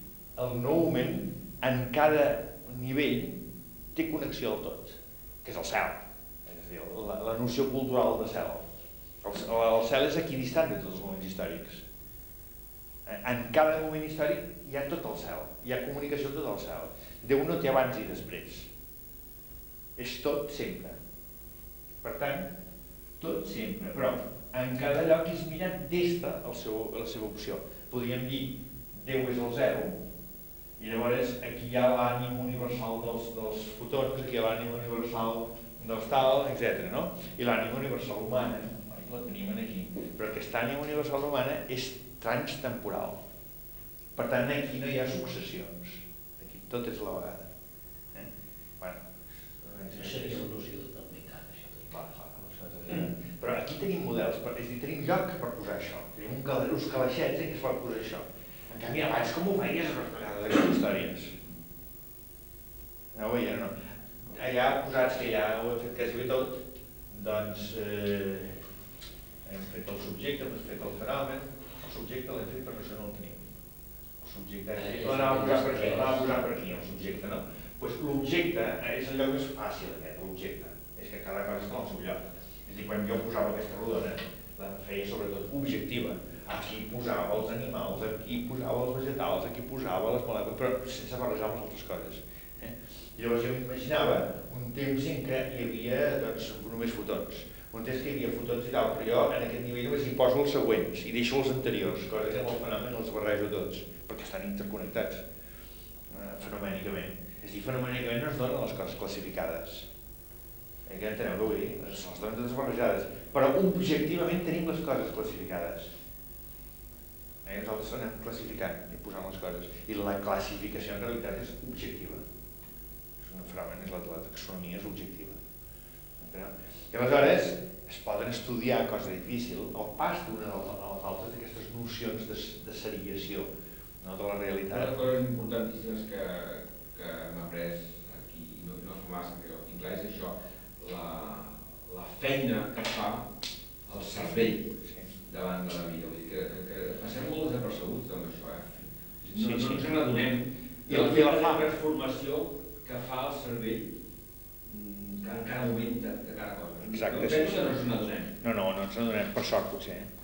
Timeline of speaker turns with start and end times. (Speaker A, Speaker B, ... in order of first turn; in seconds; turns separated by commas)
Speaker A: 0.4-3.4, Speaker A: 3.9-8.7, Speaker A: 9.2-11.8, Speaker A: 13.1-18.7, Speaker A: 20.0-21.0, Speaker A: 22.0-22.5, Speaker A: 23.2-30.0, Speaker A: 30.8-43.2, Speaker A: 44.1-47.5, Speaker A: 49.6-50.4, Speaker B: 49.9-53.0, Speaker A: 51.9-61.4, Speaker A: 63.1-63.7, Speaker A: 64.3-68.6, Speaker A: 69.4-73.4, Speaker A: 74.2-105.2, Speaker B: 74.8-76.3, Speaker A: 106.1-109.9, Speaker A: 110.9-115.9, Speaker A: 117.4-122.2, Speaker A: 123.2-125.4, Speaker A: 126.2-133.5, Speaker A: 134.0-134.9, Speaker C: 134.7-143.3, Speaker C: 143.9-144.7, Speaker A: 144.8-145.1, Speaker C: 145.3-153.9, Speaker A: 149.2-150.3, Speaker A: 150.8-151.7, Speaker C: 154.7-158.3, Speaker A: 156.8-160.1